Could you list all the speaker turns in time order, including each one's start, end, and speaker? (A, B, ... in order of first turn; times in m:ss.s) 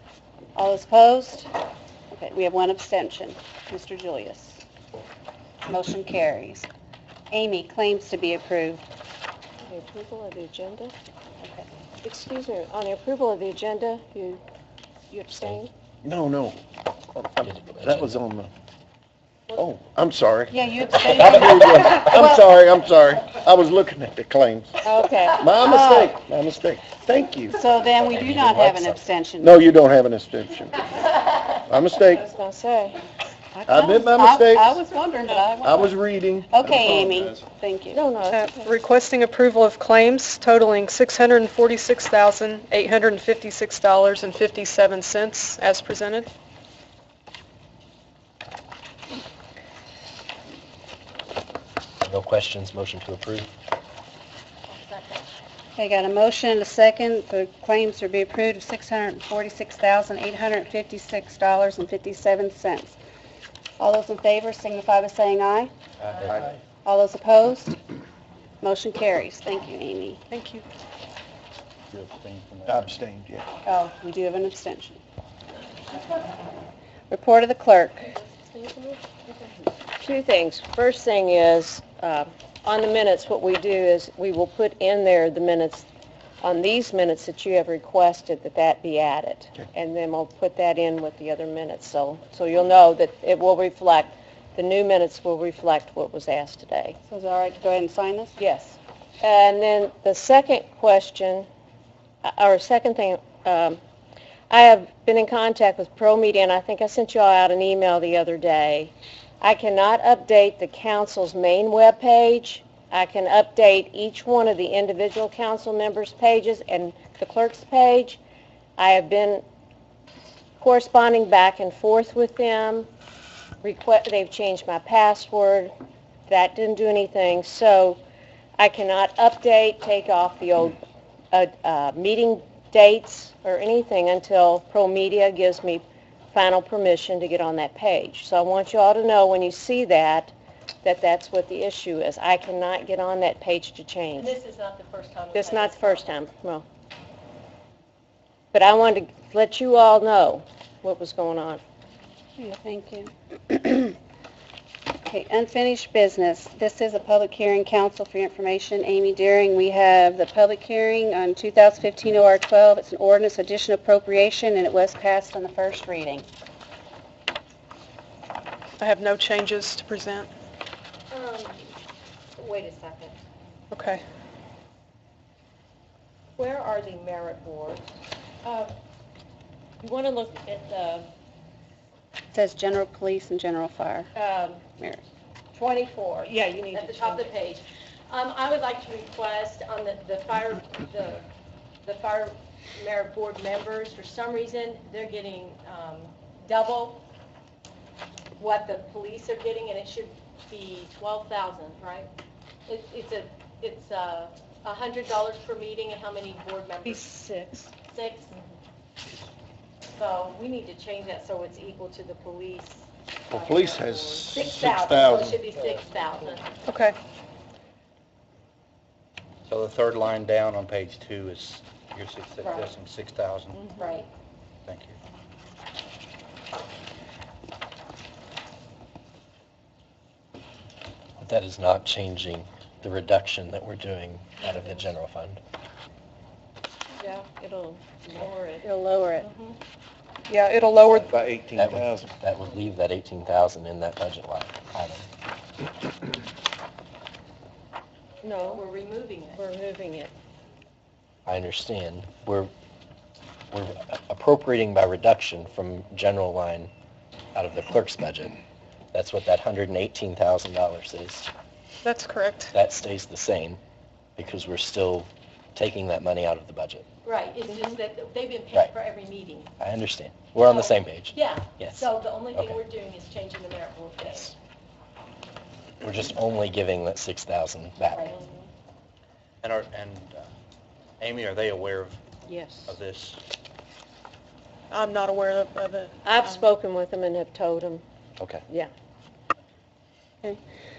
0:00.6-0:01.5 A
0:02.1-0:04.6 A
0:05.7-0:06.7 A
0:07.3-0:08.8 A
0:09.7-0:10.9 B
0:11.4-0:11.7 A
0:12.0-0:14.4 B
0:15.1-0:15.7 B
0:16.0-0:16.6 C
0:17.2-0:18.5 C
0:17.4-0:18.1 D
0:19.5-0:24.8 C
0:20.5-0:22.5 A
0:24.8-0:25.5 B
0:25.3-0:27.6 C
0:25.6-0:26.2 A
0:27.6-0:29.6 A
0:28.0-0:29.0 D
0:29.4-0:32.2 C
0:32.1-0:33.0 B
0:33.5-0:36.0 A
0:33.7-0:34.8 C
0:35.6-0:37.4 C
0:36.5-0:38.0 A
0:37.9-0:38.7 B
0:38.3-0:46.3 E
0:52.0-0:53.5 D
0:54.7-0:55.3 F
0:55.8-1:03.0 A
1:03.8-1:05.7 A
1:06.1-1:06.6 G
1:06.2-1:06.5 C
1:06.8-1:07.8 A
1:08.6-1:10.2 A
1:10.3-1:10.6 E
1:11.9-1:13.0 G
1:12.7-1:13.5 C
1:13.6-1:15.0 A
1:17.1-1:18.1 A
1:18.0-1:19.7 F
1:20.0-1:25.9 B
1:26.4-1:37.0 B
1:37.1-1:38.4 A
1:38.4-1:41.5 B
1:42.2-1:43.8 B
1:44.5-1:58.2 B
1:58.8-1:59.4 B
2:00.6-2:02.9 B
2:03.6-2:05.7 B
2:06.3-2:08.0 B
2:08.6-2:10.8 B
2:11.3-2:24.4 B
2:24.2-2:26.1 F
2:25.3-2:26.6 B
2:28.5-2:31.6 B
2:32.4-2:34.0 A
2:35.0-2:46.3 A
2:48.8-2:50.3 E
2:51.1-2:51.7 F
2:52.4-2:53.2 F
2:53.7-2:54.0 E
2:56.4-2:57.9 F
2:58.4-2:58.7 F
2:59.8-3:01.1 B
3:02.3-3:04.1 A
3:04.8-3:05.0 A
3:05.6-3:11.3 F
3:06.1-3:07.3 B
3:11.8-3:17.0 F
3:18.4-3:22.1 F
3:22.7-3:27.1 F
3:26.8-3:27.7 B
3:27.8-3:28.3 F
3:30.0-3:36.5 F
3:33.3-3:35.4 C
3:36.7-3:37.0 E
3:39.5-3:43.8 G
3:42.4-3:42.7 F
3:43.8-3:44.1 F
3:44.7-3:45.0 G
3:51.2-3:55.4 D
3:57.0-3:58.7 B
3:58.6-3:59.3 A
3:59.2-3:59.6 F
4:00.3-4:01.1 E
4:01.0-4:02.1 C
4:01.6-4:05.1 D
4:08.2-4:08.6 B
4:08.4-4:09.4 F
4:09.3-4:10.1 B
4:11.3-4:12.5 D
4:13.5-4:16.7 D
4:17.4-4:18.4 D
4:18.9-4:21.3 D
4:21.8-4:22.5 E
4:22.5-4:23.6 D
4:24.2-4:26.9 D
4:27.0-4:29.5 F
4:29.6-4:32.6 D
4:30.4-4:34.3 F
4:34.0-4:34.3 D
4:35.8-4:38.1 D
4:37.9-4:38.5 F
4:39.4-4:40.3 G
4:41.0-4:42.0 G
4:42.3-4:42.7 F
4:42.7-4:43.2 G
4:44.7-4:46.4 E
4:46.0-4:47.8 B